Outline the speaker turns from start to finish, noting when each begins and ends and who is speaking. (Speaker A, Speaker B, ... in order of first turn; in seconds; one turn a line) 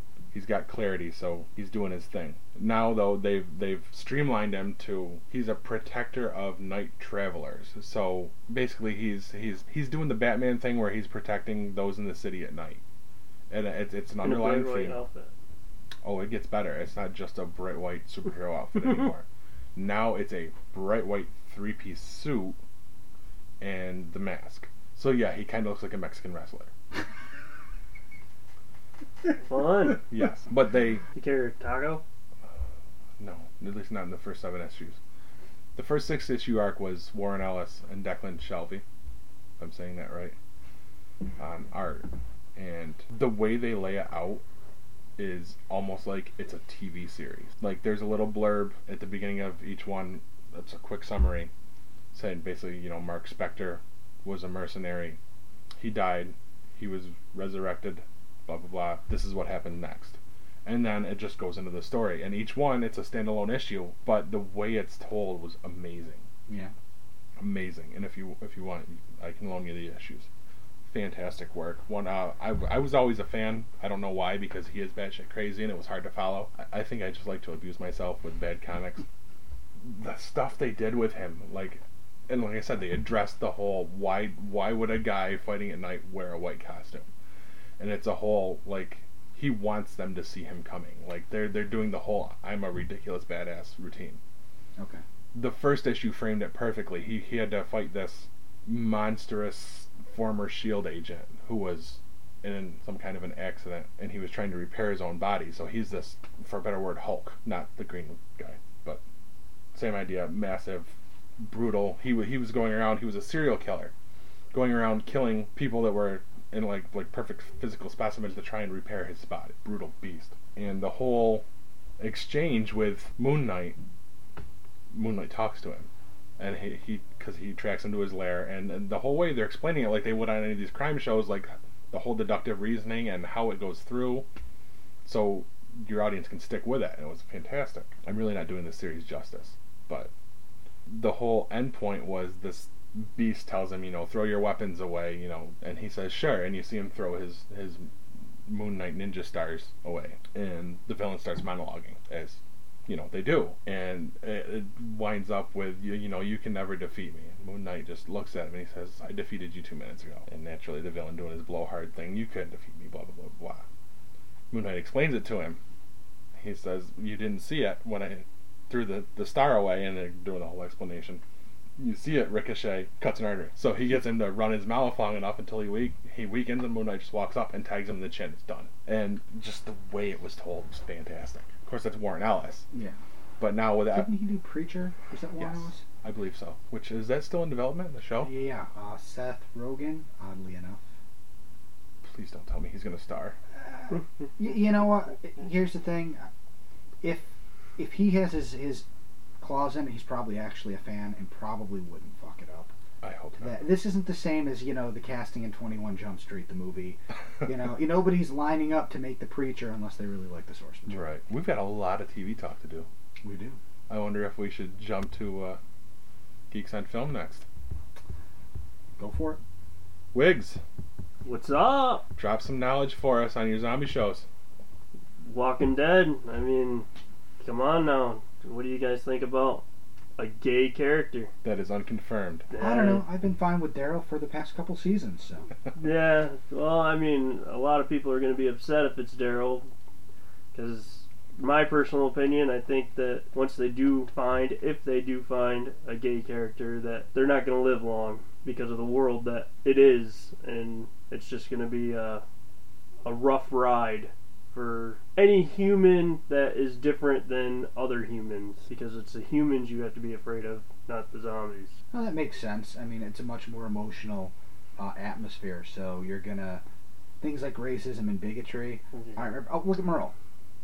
Speaker A: 0.3-12.8
Speaker A: 13.5-15.0
Speaker B: 14.2-15.3
Speaker A: 16.0-19.2
Speaker A: 19.8-22.6
Speaker A: 23.6-26.7
Speaker B: 29.4-30.0
Speaker A: 30.0-31.0
Speaker B: 31.1-32.0
Speaker A: 33.2-35.0
Speaker A: 35.8-38.8
Speaker A: 39.6-40.4
Speaker A: 41.4-44.4
Speaker A: 45.2-51.5
Speaker A: 52.1-55.2
Speaker A: 55.8-66.2
Speaker C: 66.5-66.7
Speaker A: 67.4-70.3
Speaker A: 70.9-79.0
Speaker A: 79.8-87.1
Speaker A: 87.8-94.2
Speaker C: 94.8-95.0
Speaker A: 95.3-109.0
Speaker A: 109.7-113.9
Speaker A: 114.5-121.4
Speaker A: 122.0-123.8
Speaker A: 124.9-125.9
Speaker A: 126.4-134.3
Speaker A: 135.1-140.1
Speaker A: 140.9-147.9
Speaker A: 148.5-163.6
Speaker A: 164.5-165.6
Speaker A: 166.4-171.2
Speaker A: 171.8-182.7
Speaker C: 182.7-183.0
Speaker A: 183.4-184.1
Speaker C: 183.9-185.8
Speaker A: 185.4-188.3
Speaker C: 188.2-190.8
Speaker A: 192.0-193.4
Speaker C: 193.6-196.3
Speaker C: 197.0-198.8
Speaker C: 199.4-202.7
Speaker A: 203.0-203.7
Speaker C: 203.4-211.0
Speaker A: 210.9-212.9
Speaker C: 213.2-213.6
Speaker A: 213.9-215.6
Speaker A: 216.5-217.4
Speaker C: 219.0-219.4
Speaker A: 220.1-220.6
Speaker B: 221.2-222.0
Speaker A: 222.2-224.3
Speaker B: 225.2-226.9
Speaker B: 227.4-229.7
Speaker B: 230.2-231.3
Speaker A: 231.4-232.5
Speaker B: 232.5-233.1
Speaker C: 232.6-235.5
Speaker B: 235.8-239.7
Speaker B: 240.5-252.2
Speaker B: 253.0-261.8
Speaker C: 261.9-266.6
Speaker C: 267.2-270.1